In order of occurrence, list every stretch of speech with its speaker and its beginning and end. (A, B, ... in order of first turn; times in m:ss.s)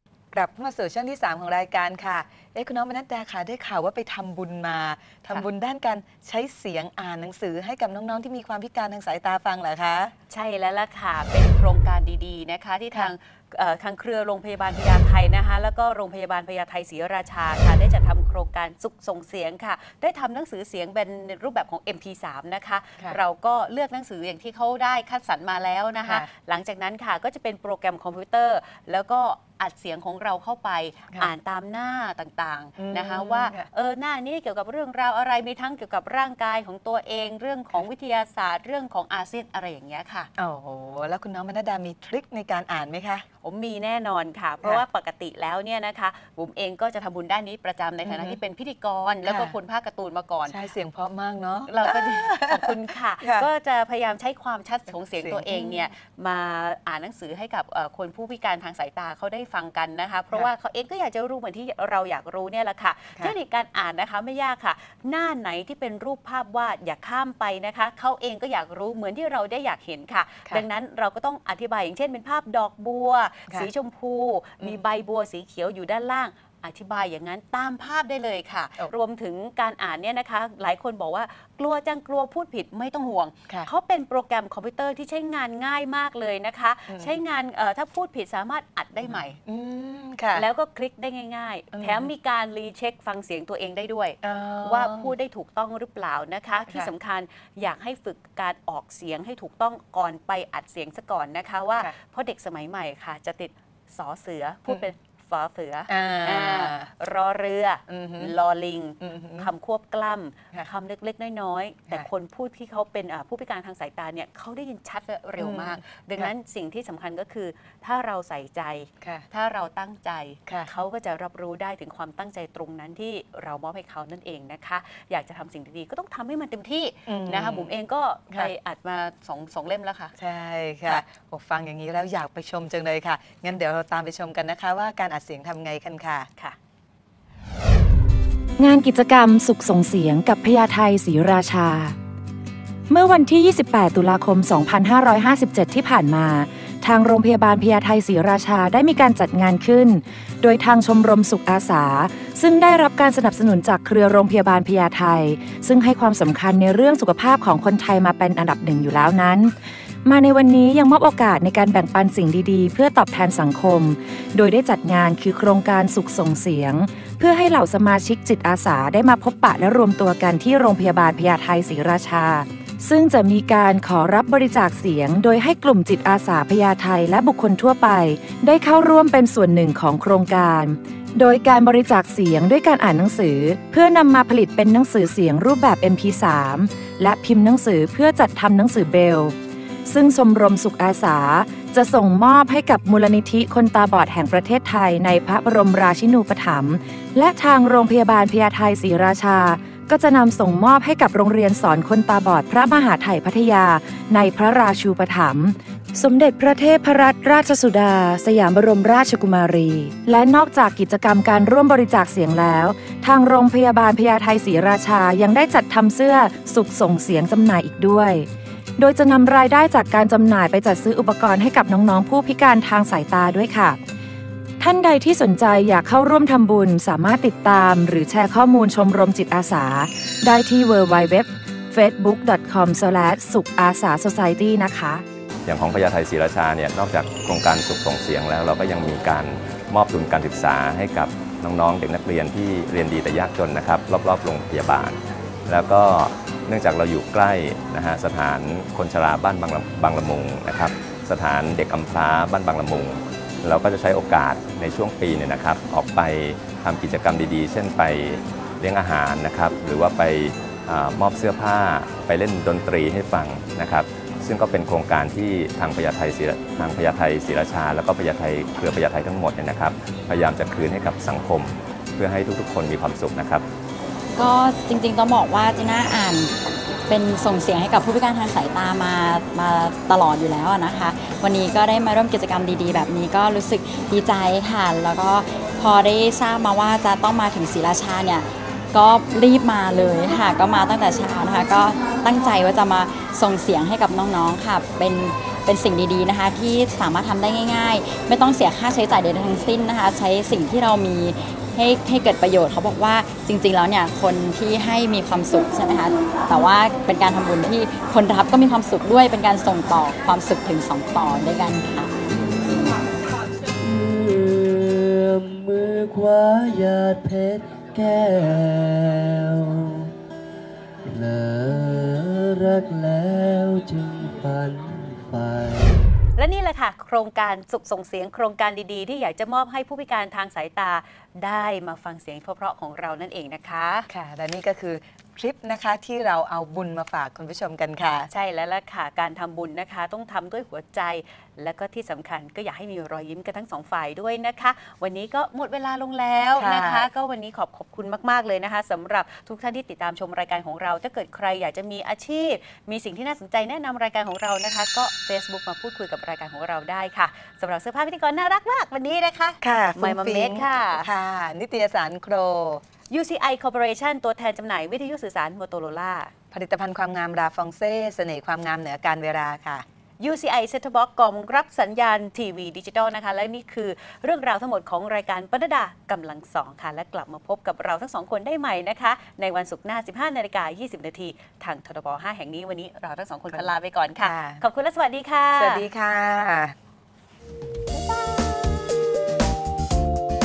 0:00.3-0:10.1 A
0:10.3-0:40.3 B
0:32.8-0:33.7 A
0:40.4-0:43.2 A
0:43.4-0:50.6 B
0:48.0-0:48.4 A
0:49.2-0:49.6 A
0:50.5-0:53.5 A
0:51.7-1:29.4 B
0:55.1-0:55.9 A
1:26.9-1:27.2 A
1:29.0-1:30.4 A
1:30.3-2:10.1 B
1:31.7-1:32.1 A
1:34.2-1:35.1 A
1:45.9-1:46.9 A
1:47.9-1:48.3 A
1:49.0-1:49.5 A
1:55.4-1:56.3 A
1:59.0-1:59.3 A
2:07.1-2:07.7 A
2:10.2-2:16.3 A
2:18.6-2:22.0 C
2:22.9-3:43.8 C
3:44.6-3:55.0 C
3:55.5-4:33.5 D
4:34.2-4:36.3 E
4:36.9-5:12.0 E
5:13.7-5:14.4 F
5:15.4-5:19.6 F
5:20.9-5:25.8 F
5:26.2-5:33.9 B
5:33.9-5:38.1 A
5:38.1-6:00.9 B
5:46.4-5:46.9 A
5:59.4-6:02.6 A
6:02.9-6:06.1 B
6:06.3-6:09.6 A
6:10.0-6:25.6 B
6:24.0-6:24.4 A
6:25.4-6:26.5 A